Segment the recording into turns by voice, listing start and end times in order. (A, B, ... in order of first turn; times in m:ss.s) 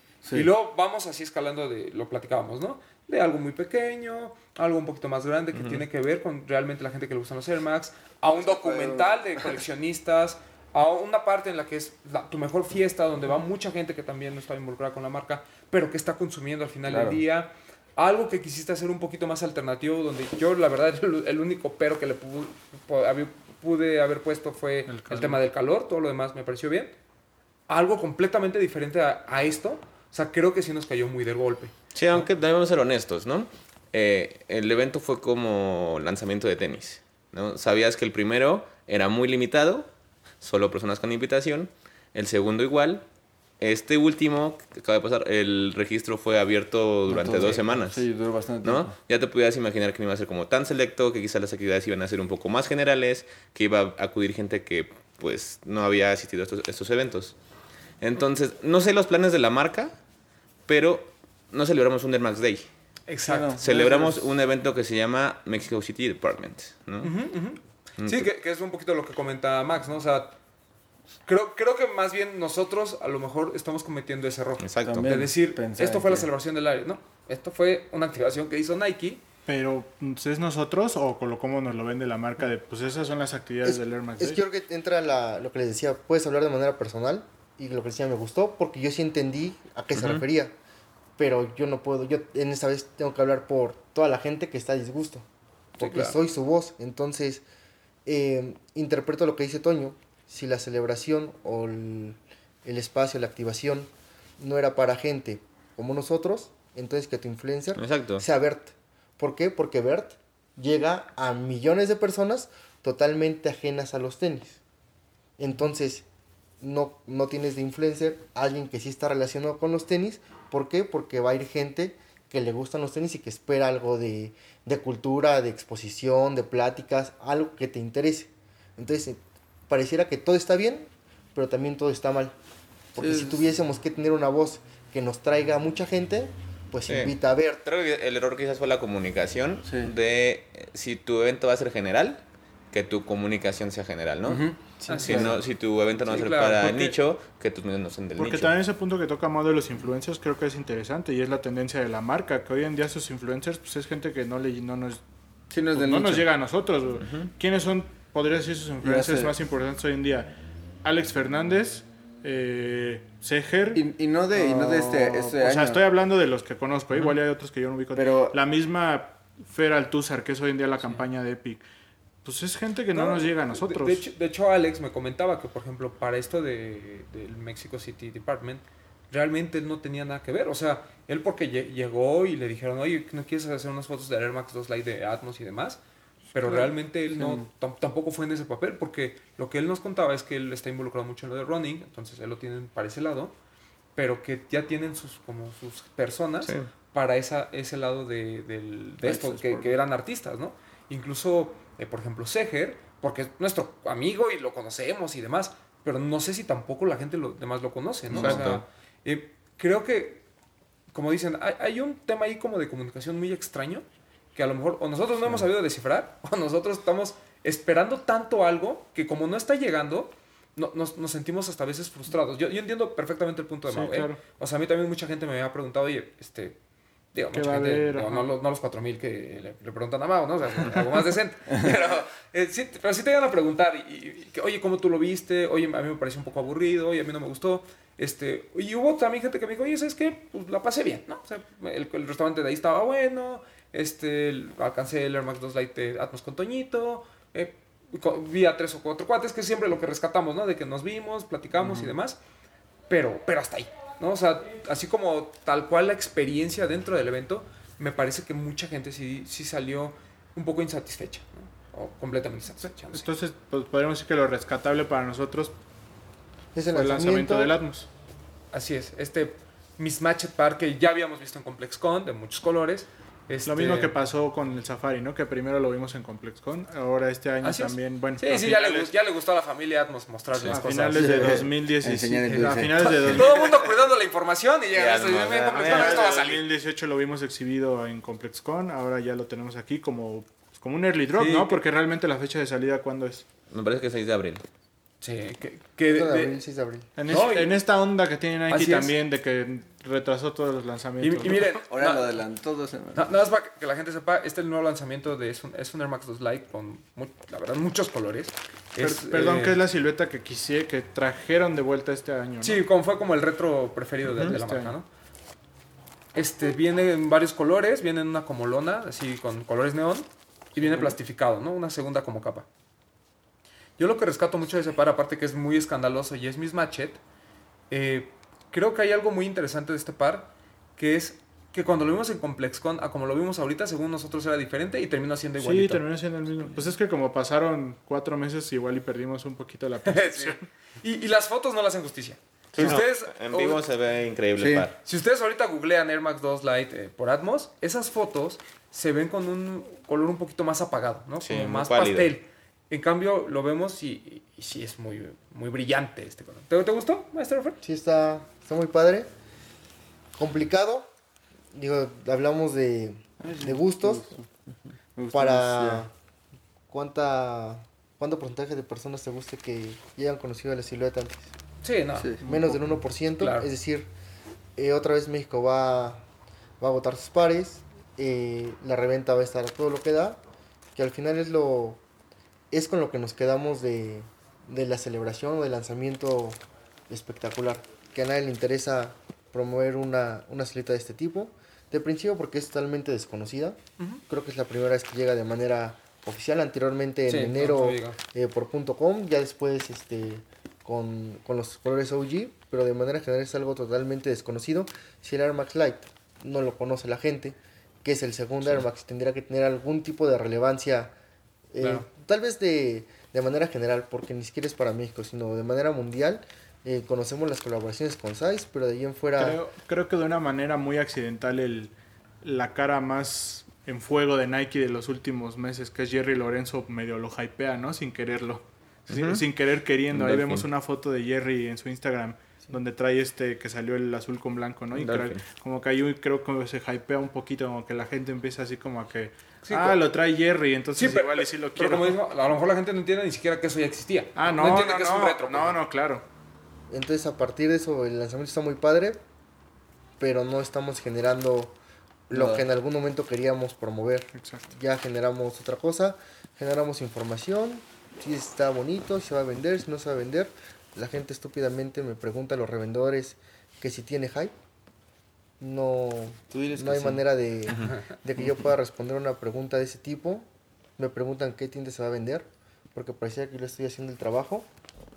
0:00.2-0:00.5 A
0:00.3-0:27.0 B
0:05.5-0:05.8 C
0:08.4-0:09.2 A
0:16.9-0:17.2 A
0:24.9-0:25.4 D
0:27.7-0:31.7 B
0:32.0-0:39.9 C
0:40.4-0:43.0 C
0:43.6-0:48.0 C
0:47.1-0:48.9 A
0:48.6-0:57.4 C
0:58.0-1:00.0 C
1:00.7-1:02.7 C
1:03.1-1:03.5 B
1:03.2-1:04.3 A
1:03.6-1:07.1 C
1:07.0-1:10.4 B
1:08.0-1:08.3 C
1:11.3-1:19.2 B
1:14.6-1:15.1 C
1:14.9-1:16.3 A
1:19.5-1:24.4 D
1:23.6-1:30.6 E
1:30.0-1:30.2 C
1:31.2-1:35.3 E
1:35.8-1:37.4 E
1:35.8-1:36.2 B
1:38.1-1:54.6 E
1:47.8-1:48.2 C
1:55.4-1:56.1 E
1:56.6-2:12.4 E
2:12.9-2:17.6 E
2:13.0-2:13.5 A
2:16.9-2:22.2 C
2:19.7-2:19.9 A
2:22.7-2:28.5 C
2:24.3-2:25.4 A
2:24.9-2:25.4 B
2:26.0-2:26.9 B
2:28.2-2:35.0 D
2:35.5-2:36.3 A
2:35.7-2:40.3 D
2:37.0-2:37.3 C
2:38.8-2:39.4 A
2:40.8-2:51.6 D
2:43.7-2:45.8 A
2:47.9-2:48.4 A
2:52.2-2:54.0 D
2:52.9-3:05.8 B
3:06.3-3:13.4 B
3:07.2-3:07.5 A
3:14.0-3:30.2 B
3:16.4-3:16.7 C
3:19.0-3:19.7 A
3:28.1-3:28.6 A
3:28.2-3:28.6 C
3:30.9-3:46.6 B
3:43.7-3:44.2 D
3:47.1-4:12.2 B
3:47.3-3:48.3 D
4:11.6-4:11.9 A
4:12.9-4:23.1 B
4:22.6-4:25.6 D
4:26.6-4:27.6 E
4:26.7-4:27.9 D
4:28.5-4:34.0 B
4:33.4-4:38.9 D
4:37.4-4:41.4 B
4:40.4-4:43.5 D
4:41.0-4:43.3 A
4:43.0-4:46.4 B
4:44.7-4:46.1 C
4:45.5-4:53.2 D
4:51.2-4:51.6 B
4:53.5-4:54.4 C
4:55.0-4:56.4 B
4:55.9-4:56.9 E
4:57.0-5:01.6 D
4:57.1-4:57.5 B
4:58.5-4:59.0 B
5:01.0-5:02.1 B
5:01.7-5:03.1 A
5:03.0-5:09.6 B
5:08.8-5:12.6 D
5:12.4-5:14.9 B
5:14.2-5:14.8 D
5:16.1-5:22.5 B
5:20.6-5:21.0 A
5:23.8-5:27.0 B
5:27.7-5:35.8 B
5:35.4-5:40.5 D
5:39.8-5:43.6 B
5:42.5-5:44.8 C
5:44.4-5:44.7 A
5:44.8-5:57.6 B
5:51.2-5:52.1 C
5:57.6-5:59.1 E
6:00.2-6:00.9 E
6:01.5-6:04.2 E
6:03.2-6:04.3 A
6:05.0-6:05.9 A
6:05.1-6:05.9 E
6:06.7-6:11.3 E
6:11.6-6:12.1 B
6:12.0-6:12.6 A
6:12.2-6:13.9 E
6:13.2-6:13.5 B
6:14.6-6:16.1 E
6:16.6-6:20.2 E
6:20.8-6:21.8 E
6:22.5-6:51.0 E
6:37.1-6:38.0 B
6:51.5-6:59.4 E
6:51.6-6:51.9 B
6:59.2-7:22.0 D
7:08.9-7:09.2 C
7:09.9-7:10.5 C
7:14.7-7:15.2 C
7:19.4-7:19.8 B
7:20.8-7:25.6 B
7:24.2-7:26.0 D
7:26.7-7:29.0 E
7:30.0-7:31.6 E
7:32.1-7:44.3 E
7:32.1-7:32.4 A
7:34.2-7:34.5 D
7:45.4-7:54.5 E
7:46.3-7:47.0 A
7:47.6-7:48.0 B